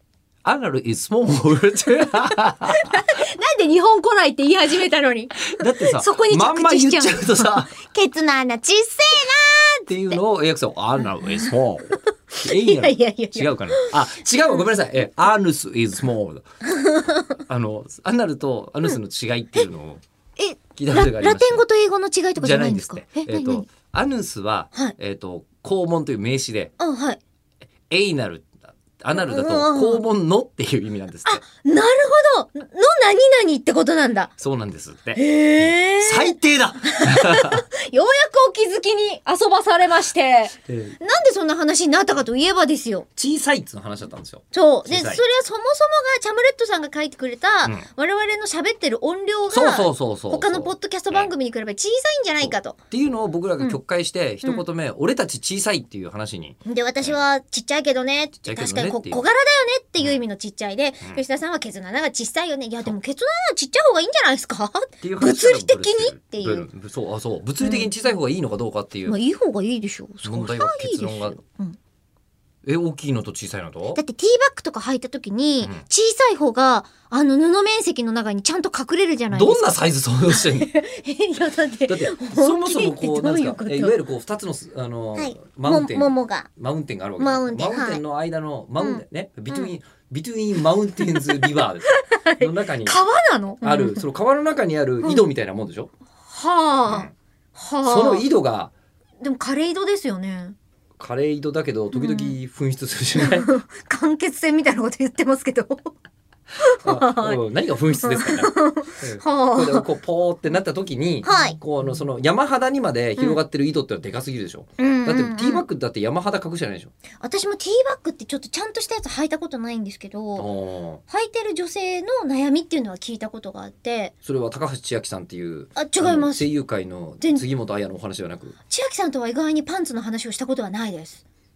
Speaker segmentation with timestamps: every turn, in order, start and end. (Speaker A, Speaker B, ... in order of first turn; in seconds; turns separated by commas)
Speaker A: 0.5-2.9, Speaker B: 2.1-10.2, Speaker A: 5.5-7.7, Speaker A: 9.9-16.4, Speaker B: 11.0-11.5, Speaker B: 12.3-14.0, Speaker B: 16.6-17.3, Speaker A: 17.5-20.0, Speaker B: 20.4-23.7, Speaker A: 20.8-21.6, Speaker A: 22.4-26.7, Speaker B: 26.8-27.2, Speaker A: 27.9-31.4, Speaker B: 29.2-30.0, Speaker B: 31.3-34.3, Speaker A: 34.4-37.6, Speaker B: 35.2-43.1, Speaker A: 40.7-41.0, Speaker A: 43.2-45.2, Speaker B: 44.5-52.8, Speaker A: 49.5-51.3, Speaker A: 52.4-57.2, Speaker B: 56.6-66.7, Speaker A: 58.4-59.2, Speaker A: 65.0-69.2, Speaker B: 67.6-67.9, Speaker B: 69.1-71.8, Speaker A: 70.2-71.4, Speaker A: 72.7-74.0, Speaker B: 74.0-79.8, Speaker A: 79.3-80.7, Speaker B: 80.3-84.0, Speaker A: 81.9-93.0, Speaker B: 85.2-86.5, Speaker B: 87.2-88.0, Speaker B: 88.8-89.7, Speaker B: 91.1-94.1, Speaker A: 93.6-95.9, Speaker B: 96.3-98.3, Speaker A: 96.9-97.1, Speaker A: 97.8-98.7, Speaker B: 99.2-100.6, Speaker A: 101.0-103.5, Speaker B: 101.9-102.4, Speaker B: 103.2-105.9, Speaker B: 106.6-107.4, Speaker A: 106.8-116.9, Speaker B: 108.0-109.8, Speaker B: 111.2-111.6, Speaker B: 114.8-115.7, Speaker B: 117.2-120.5, Speaker A: 120.4-121.0, Speaker B: 121.1-124.1, Speaker A: 124.2-128.5, Speaker B: 125.8-126.4, Speaker B: 128.7-131.2